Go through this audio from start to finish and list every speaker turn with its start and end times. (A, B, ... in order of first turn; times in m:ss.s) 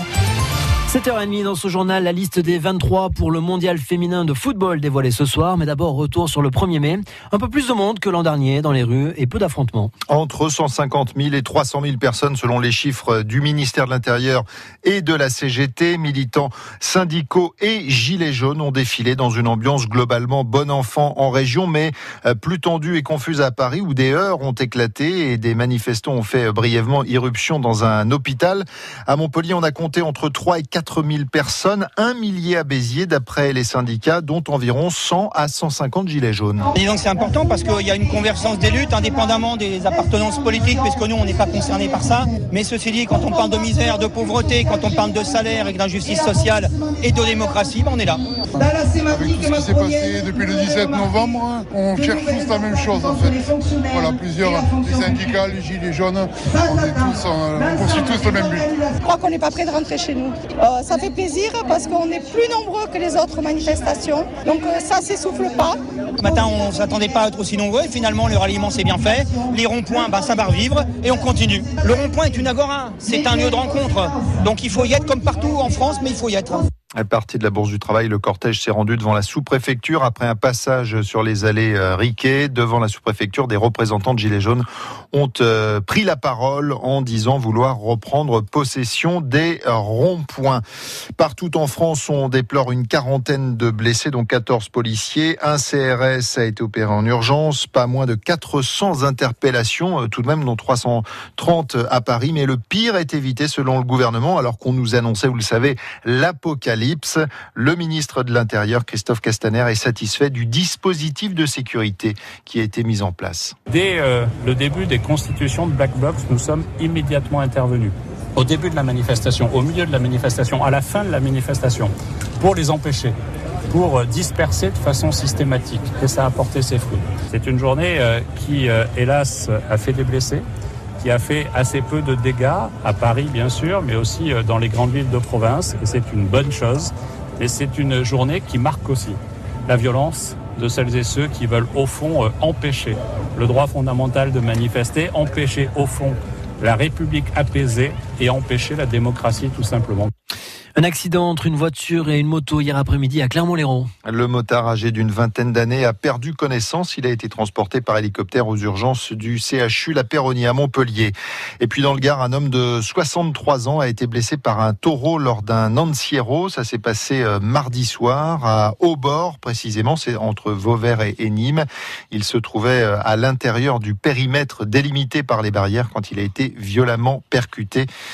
0:00.9-0:09.9 A
0:10.1-0:36.7 B
0:36.8-0:48.2 C
0:48.5-0:58.8 D
0:59.0-1:05.8 E
1:06.2-1:16.7 C
1:17.0-1:30.6 B
1:31.2-1:53.6 B
1:53.7-2:03.1 F
2:03.7-2:10.4 F
2:11.0-2:30.1 F
2:30.8-2:33.9 A
2:34.1-2:57.9 B